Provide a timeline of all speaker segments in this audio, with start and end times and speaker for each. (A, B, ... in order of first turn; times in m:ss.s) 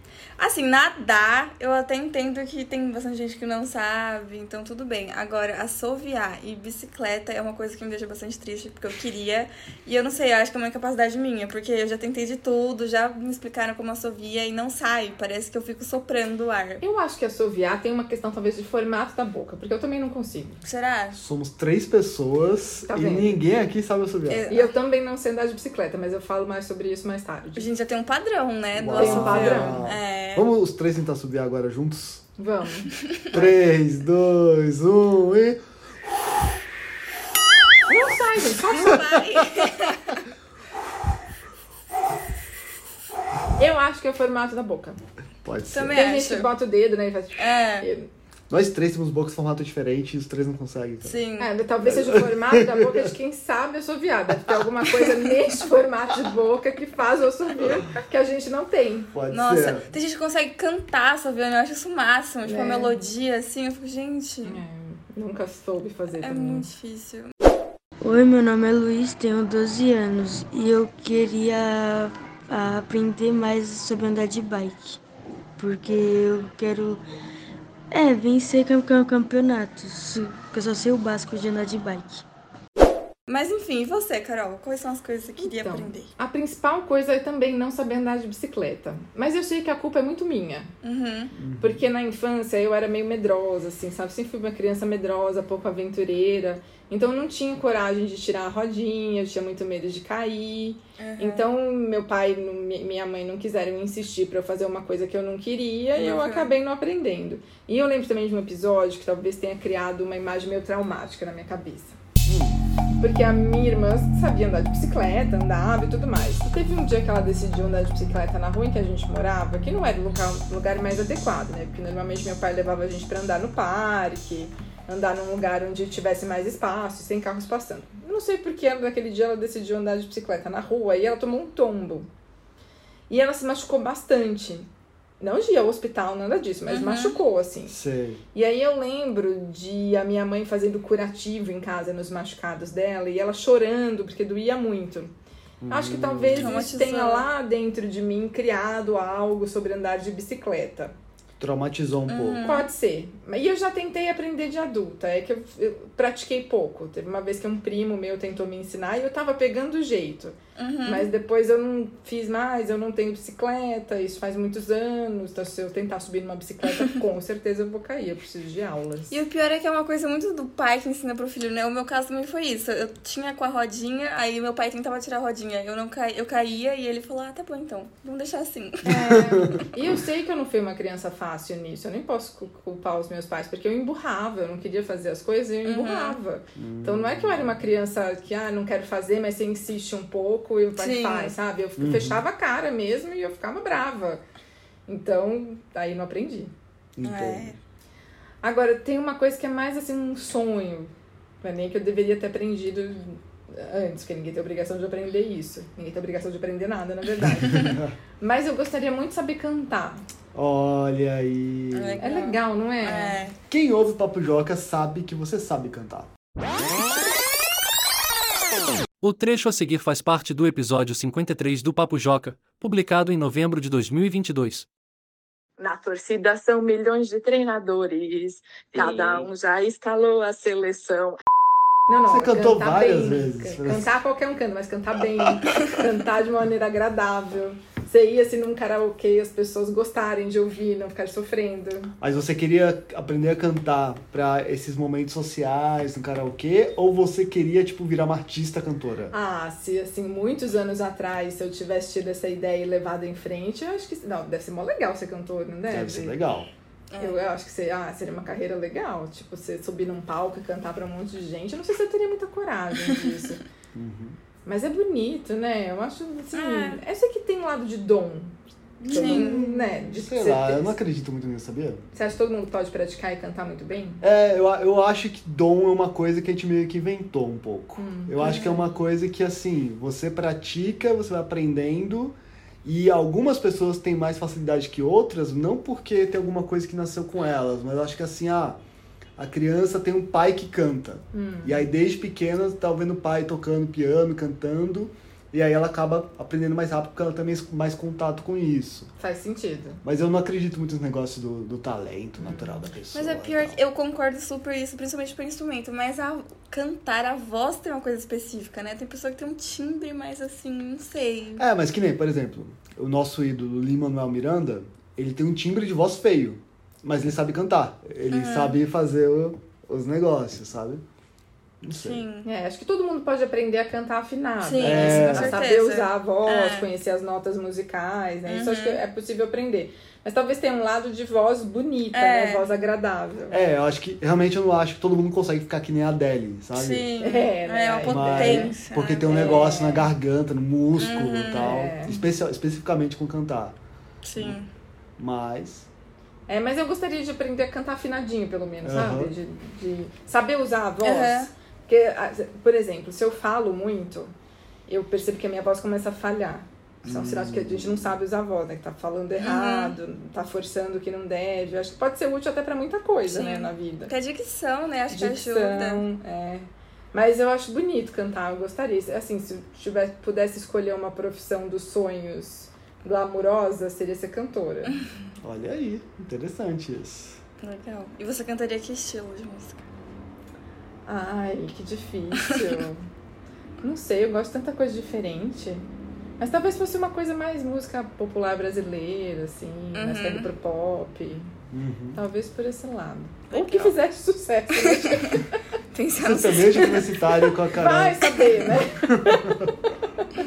0:00.4-0:16.8 A
0:16.8-0:20.6 B
0:20.6-0:21.2 A
0:21.1-0:24.5 C
0:22.9-0:23.4 B
0:24.2-0:24.7 A
0:24.5-0:27.7 B
0:27.6-0:30.5 A
0:28.7-0:32.2 C
0:28.9-0:29.8 B
0:32.4-0:32.9 B
0:33.3-0:35.6 C
0:37.9-0:39.0 B
0:38.6-0:40.2 A
0:43.6-0:45.0 B
0:45.4-0:46.0 C
0:45.7-0:46.5 A
0:45.9-0:48.1 B
0:47.4-0:47.9 A
0:48.5-0:51.2 C
0:51.0-0:51.5 A
0:51.4-0:59.1 B
0:51.8-0:53.1 C
0:59.1-0:59.9 C
0:59.3-1:04.6 A
1:02.4-1:03.0 B
1:04.4-1:06.7 B
1:06.2-1:07.3 A
1:08.0-1:15.0 D
1:15.6-1:17.0 D
1:18.1-1:22.1 D
1:23.3-1:26.1 A
1:25.4-1:30.7 B
1:30.8-1:31.3 A
1:31.3-1:31.8 C
1:31.6-1:52.0 B
1:41.0-1:41.5 A
1:46.0-1:46.5 A
1:52.2-1:52.6 C
1:53.0-2:12.1 B
2:13.1-2:14.7 B
2:15.2-2:17.8 B
2:16.7-2:17.2 A
2:17.7-2:18.2 C
2:18.3-2:25.1 B
2:25.6-2:26.6 C
2:25.7-2:30.9 B
2:26.3-2:27.3 A
2:31.4-2:32.5 C
2:32.1-2:32.7 A
2:32.4-2:49.2 B
2:40.6-2:41.1 A
2:49.1-2:59.6 A
2:58.8-2:59.7 C
2:58.9-3:14.2 B
3:05.6-3:06.2 A
3:06.6-3:07.6 C
3:10.8-3:11.3 A
3:11.8-3:12.2 C
3:14.9-3:16.5 B
3:17.0-3:17.6 C
3:17.0-3:17.6 A
3:18.4-3:20.9 B
3:21.4-3:27.7 B
3:27.3-3:28.0 C
3:28.2-3:30.0 B
3:30.3-3:32.0 C
3:31.7-3:33.4 A
3:32.0-3:33.2 B
3:33.5-3:36.1 C
3:39.0-3:44.6 E
3:45.6-3:51.2 F
3:48.8-3:49.2 A
3:51.9-4:01.9 B
3:52.1-3:53.9 C
4:02.0-4:09.1 C
4:09.1-4:16.2 B
4:15.7-4:16.5 C
4:16.9-4:17.2 A
4:17.0-4:23.4 B
4:23.7-4:24.2 C
4:24.4-4:30.7 B
4:26.3-4:26.8 A
4:28.8-4:29.4 A
4:28.9-4:31.8 C
4:31.9-4:34.0 B
4:34.0-4:48.6 C
4:37.8-4:38.1 B
4:38.2-4:38.6 A
4:49.2-4:58.9 C
4:51.1-4:51.6 B
4:59.0-4:59.8 B
4:59.8-5:03.6 C
5:02.2-5:02.7 B
5:02.9-5:11.4 A
5:11.4-5:20.8 C
5:18.1-5:18.6 A
5:21.6-5:22.0 C
5:21.7-5:22.3 A
5:22.2-5:33.4 B
5:24.4-5:26.7 A
5:24.6-5:25.4 C
5:28.2-5:28.8 A
5:31.9-5:32.4 A
5:33.3-5:36.9 C
5:36.5-5:39.6 A
5:37.0-5:38.6 B
5:37.8-5:43.6 C
5:39.1-5:39.9 B
5:40.8-5:41.6 A
5:41.3-5:42.0 B
5:44.0-5:44.5 A
5:45.0-5:45.7 C
5:46.3-5:54.1 B
5:48.6-5:49.1 C
5:50.8-5:51.3 A
5:54.7-6:03.9 B
5:56.8-5:57.8 C
5:59.2-5:59.7 A
6:03.0-6:05.9 A
6:04.9-6:14.8 B
6:15.2-6:17.2 C
6:17.4-6:19.6 A
6:20.8-6:22.8 B
6:23.6-6:25.6 B
6:26.2-6:31.3 B
6:29.7-6:30.3 A
6:31.5-6:32.0 C
6:31.9-6:35.4 B
6:33.3-6:33.7 A
6:34.6-6:37.3 A
6:36.0-6:39.4 C
6:37.5-6:39.4 B